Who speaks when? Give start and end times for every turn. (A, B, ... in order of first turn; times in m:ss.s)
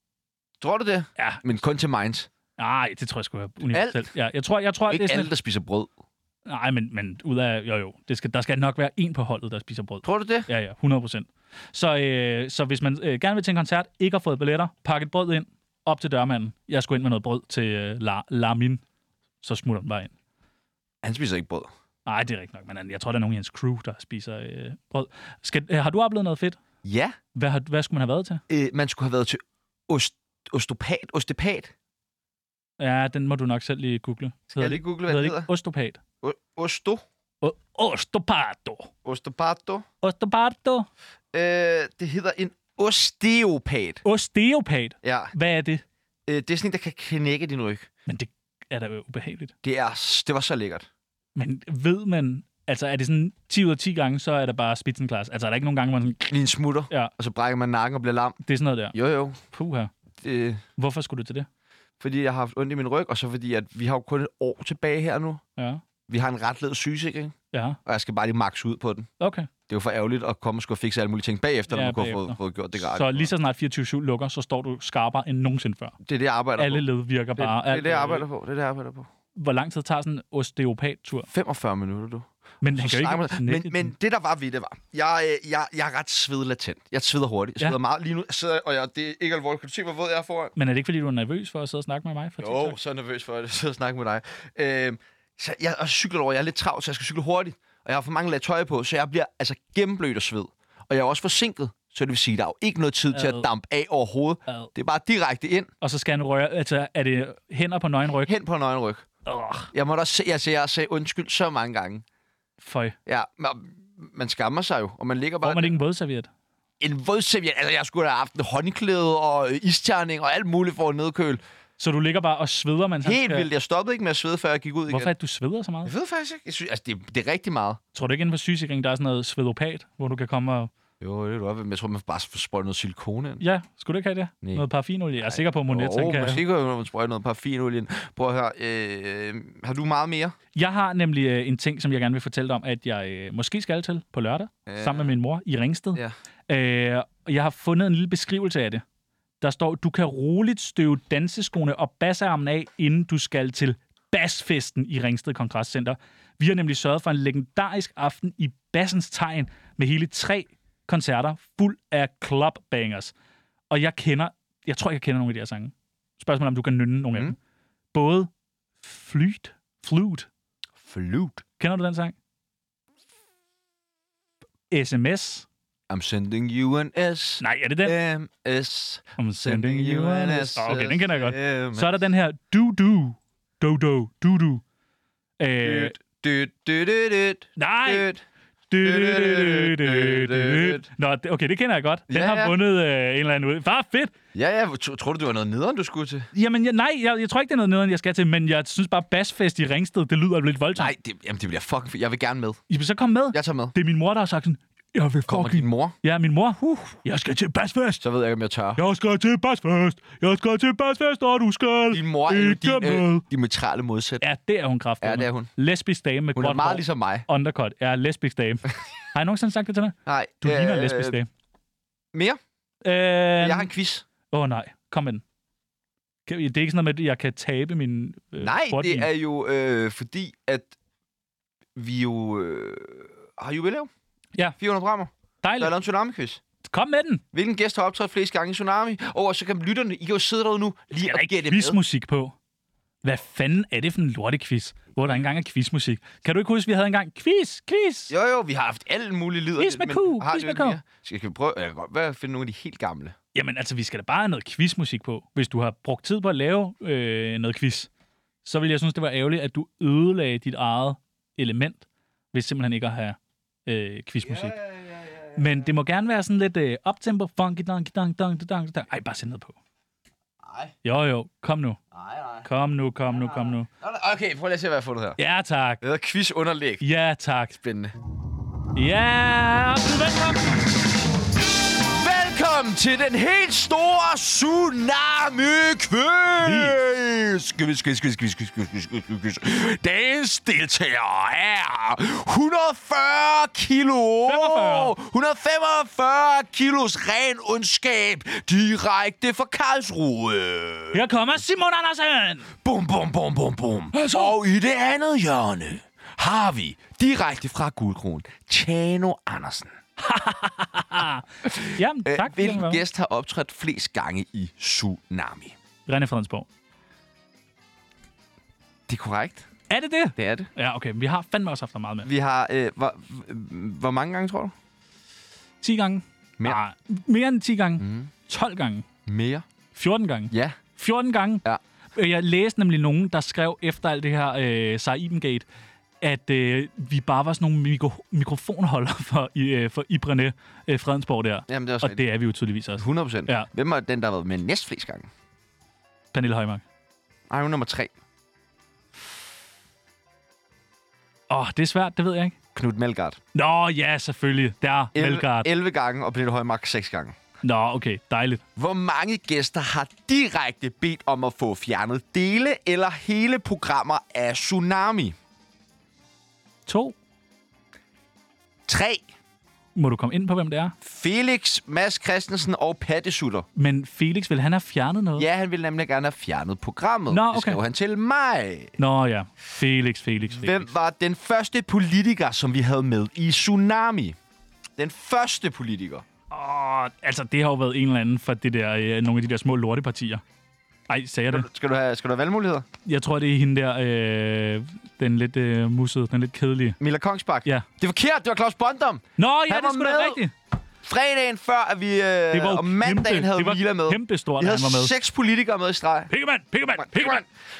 0:00.6-0:02.3 A
0:02.6-0:05.3 B
0:03.7-0:04.1 A
0:04.9-0:05.9 A
0:06.4-0:18.8 B
0:10.0-0:10.5 A
0:19.4-0:20.1 B
0:21.0-0:21.7 A
0:22.0-0:26.6 B
0:26.8-0:27.2 A
0:27.3-0:28.4 B
0:28.5-0:31.7 A
0:32.8-0:36.0 B
0:34.5-0:35.5 A
0:36.2-0:37.0 A
0:37.4-0:38.9 B
0:39.0-0:39.8 A
0:40.0-0:40.9 B
0:41.3-0:44.0 A
0:44.0-0:45.8 B
0:45.0-0:45.3 A
0:46.3-0:47.9 A
0:48.1-0:49.5 B
0:49.6-0:50.9 A
0:51.4-0:56.3 B
0:56.3-0:58.4 A
0:58.4-0:58.9 B
0:58.9-0:59.4 A
0:59.5-0:59.9 B
1:00.2-1:00.6 A
1:00.8-1:01.5 B
1:02.0-1:05.4 A
1:05.6-1:05.8 B
1:06.1-1:07.3 A
1:07.5-1:07.8 B
1:07.8-1:09.1 A
1:09.2-1:09.5 B
1:09.7-1:13.3 A
1:11.7-1:16.0 B
1:16.0-1:19.1 A
1:16.6-1:18.3 B
1:19.4-1:21.3 B
1:21.2-1:30.5 A
1:22.6-1:23.9 B
1:30.6-1:32.8 B
1:32.4-1:45.7 A
1:43.1-1:43.5 B
1:45.8-1:48.3 B
1:48.2-1:49.0 A
1:49.2-1:49.7 B
1:49.7-1:52.0 A
1:52.6-1:53.0 B
1:53.0-1:55.7 A
1:55.4-1:56.3 B
1:56.8-2:01.4 A
2:01.8-2:03.5 B
2:03.0-2:05.1 A
2:04.9-2:05.9 B
2:05.8-2:07.8 A
2:07.9-2:10.7 B
2:11.0-2:13.4 A
2:13.4-2:16.4 B
2:15.2-2:20.3 A
2:20.5-2:28.8 B
2:24.7-2:25.1 A
2:29.4-2:43.1 B
2:43.7-2:47.4 B
2:47.9-2:48.3 B
2:48.8-2:50.3 B
2:50.8-2:51.4 A
2:51.6-2:52.1 B
2:54.7-2:55.4 B
2:55.9-3:01.9 A
2:57.4-2:58.0 B
2:59.2-3:04.6 B
3:05.4-3:06.0 B
3:05.6-3:08.2 A
3:07.6-3:08.1 B
3:08.7-3:14.1 B
3:08.8-3:10.8 A
3:12.1-3:12.5 A
3:14.3-3:16.3 A
3:16.3-3:20.9 B
3:20.8-3:22.6 A
3:22.7-3:28.0 B
3:23.3-3:23.7 A
3:25.3-3:26.0 A
3:28.0-3:28.8 A
3:28.8-3:33.2 B
3:31.9-3:34.2 A
3:34.2-3:41.3 B
3:35.0-3:35.5 A
3:36.4-3:37.2 A
3:40.0-3:41.2 A
3:42.1-3:42.4 A
3:42.8-3:43.7 B
3:43.4-3:44.0 A
3:44.3-3:45.2 B
3:46.3-3:49.1 B
3:48.4-3:50.7 A
3:51.8-3:53.9 A
3:54.6-3:56.4 A
3:55.4-3:55.7 B
3:56.7-3:57.2 B
3:57.3-4:01.8 A
4:01.0-4:02.4 B
4:03.0-4:08.1 B
4:08.1-4:13.2 A
4:09.6-4:10.8 B
4:13.3-4:17.9 B
4:18.4-4:24.6 B
4:24.2-4:25.5 A
4:25.3-4:29.6 B
4:30.4-4:30.7 A
4:30.8-4:31.8 B
4:31.9-4:32.4 A
4:32.4-4:33.7 B
4:33.1-4:35.2 A
4:35.2-4:35.8 B
4:35.8-4:36.8 A
4:36.8-4:37.6 B
4:37.6-4:37.9 A
4:38.7-4:40.6 B
4:41.7-5:01.0 A
4:46.4-4:46.8 B
4:54.2-4:55.0 B
5:00.9-5:02.5 B
5:02.6-5:09.8 A
5:03.9-5:04.3 B
5:10.0-5:12.8 B
5:11.4-5:15.5 A
5:15.9-5:16.4 B
5:18.9-5:19.5 A
5:19.7-5:22.1 B
5:20.2-5:20.5 A
5:22.0-5:24.5 A
5:25.6-5:28.8 B
5:27.8-5:28.1 A
5:29.0-5:29.4 A
5:29.7-5:35.4 B
5:30.3-5:30.6 A
5:36.0-5:43.5 B
5:41.5-5:42.0 A
5:42.8-5:45.1 A
5:46.1-5:46.6 B
5:47.3-5:47.9 A
5:51.3-5:52.4 B
5:52.5-5:53.2 A
5:53.3-5:55.5 B
5:54.9-5:57.2 A
5:57.4-5:58.4 B
5:58.6-6:05.2 A
6:06.6-6:07.0 B
6:08.7-6:09.0 A
6:09.7-6:10.7 B
6:10.8-6:13.4 A
6:13.6-6:15.3 B
6:15.2-6:18.7 A
6:17.1-6:17.6 B
6:18.8-6:20.7 B
6:20.3-6:24.2 A
6:24.8-6:26.0 A
6:26.3-6:30.2 B
6:30.9-6:31.5 B
6:31.3-6:32.7 A
6:32.8-6:36.8 B
6:36.8-6:40.2 A
6:39.2-6:40.3 B
6:40.8-6:46.1 A
6:42.3-6:44.9 B
6:46.1-6:47.2 B
6:46.8-6:47.2 A